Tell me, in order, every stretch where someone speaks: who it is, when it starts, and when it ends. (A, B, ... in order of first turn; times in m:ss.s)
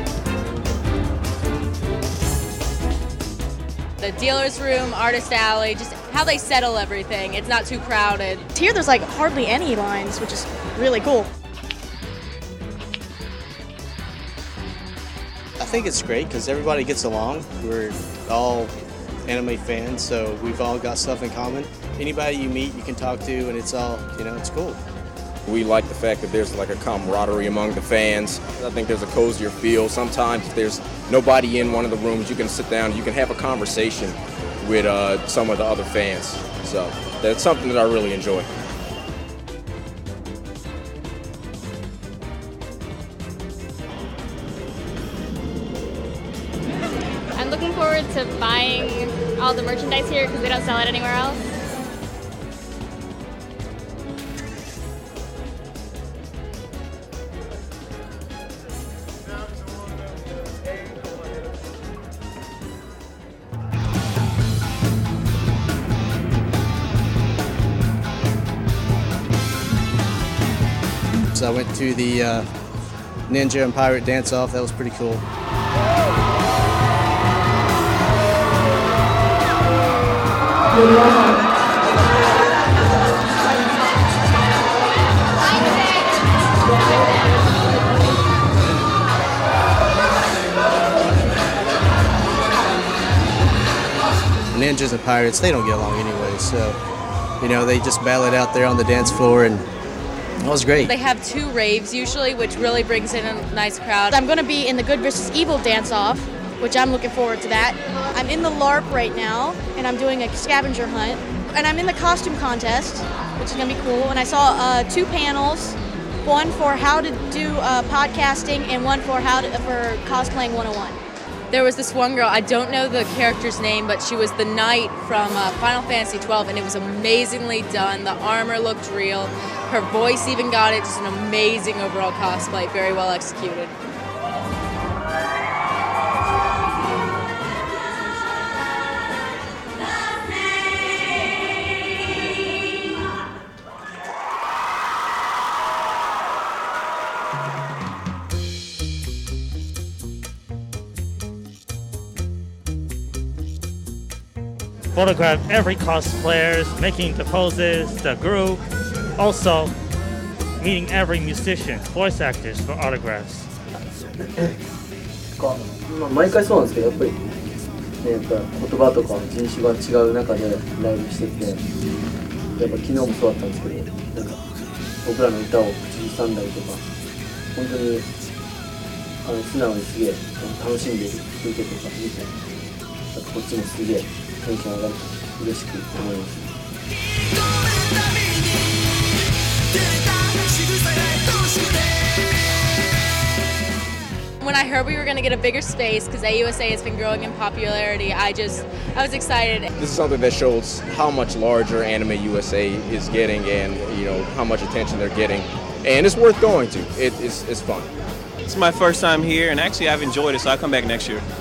0:04.0-0:08.4 A
0:08.6-0:11.2 B
0:15.6-0:18.7 C
0:19.3-0:24.8 C
0:25.4-0:38.5 D
0:47.4-0:51.4 E
1:11.3-1:12.5 C
1:13.3-1:15.2 C
1:34.5-1:36.8 C
1:37.4-1:39.6 C
1:40.4-1:40.9 C
1:40.8-1:44.2 A
1:44.4-1:47.6 B
1:48.2-1:55.7 B
1:56.3-2:01.0 B
2:01.5-2:13.7 A
2:34.9-2:38.6 F
2:39.2-2:39.7 F
2:40.6-2:43.5 F
2:45.9-2:47.2 G
2:48.0-2:51.6 G
2:52.6-2:54.4 G
2:55.0-2:56.8 G
2:57.5-2:58.0 G
2:59.2-3:02.3 G
3:03.1-3:06.4 G
3:14.4-3:19.7 A
3:19.8-3:27.9 D
3:28.4-3:31.2 H